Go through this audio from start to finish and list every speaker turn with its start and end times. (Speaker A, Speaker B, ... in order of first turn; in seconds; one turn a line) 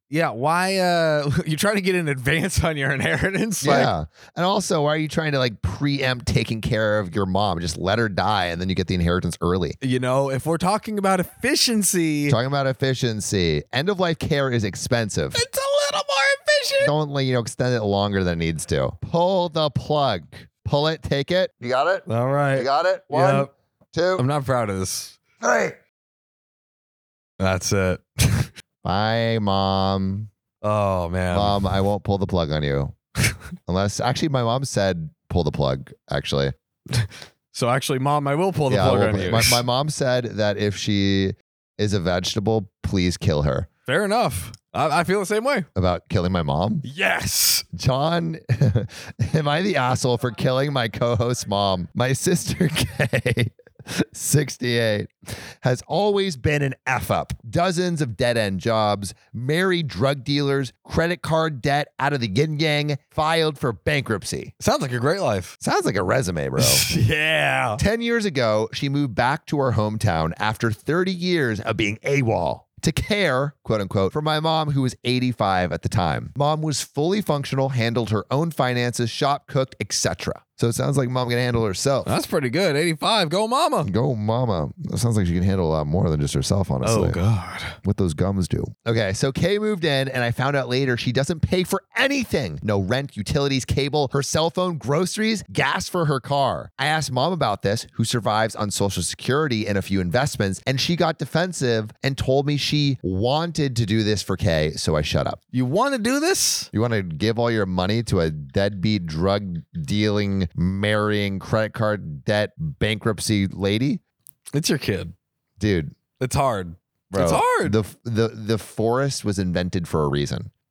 Speaker A: 0.1-3.9
Speaker B: 3.6-9.8
Speaker A: 9.8-12.3
Speaker B: 12.3-15.4
Speaker A: 15.3-16.9
Speaker B: 16.8-24.2
Speaker A: 22.1-23.5
Speaker A: 24.2-25.2
Speaker B: 25.4-25.8
Speaker A: 27.4-28.5
Speaker B: 28.8-30.3
Speaker A: 30.6-31.7
Speaker B: 31.3-32.9
Speaker B: 33.6-36.5
Speaker A: 36.9-39.6
Speaker B: 38.7-43.7
Speaker A: 43.9-45.7
Speaker B: 45.8-46.8
Speaker A: 46.8-47.6
Speaker B: 47.7-64.5
Speaker A: 64.6-65.5
Speaker B: 65.6-66.9
Speaker A: 66.6-67.8
Speaker B: 67.8-82.1
Speaker A: 82.0-83.9
Speaker B: 83.8-87.2
Speaker A: 86.8-87.8
Speaker B: 87.8-105.4
Speaker A: 105.5-106.7
Speaker B: 106.7-114.0
Speaker A: 114.5-115.1
Speaker B: 115.6-115.9
Speaker A: 116.2-117.8
Speaker B: 117.1-120.5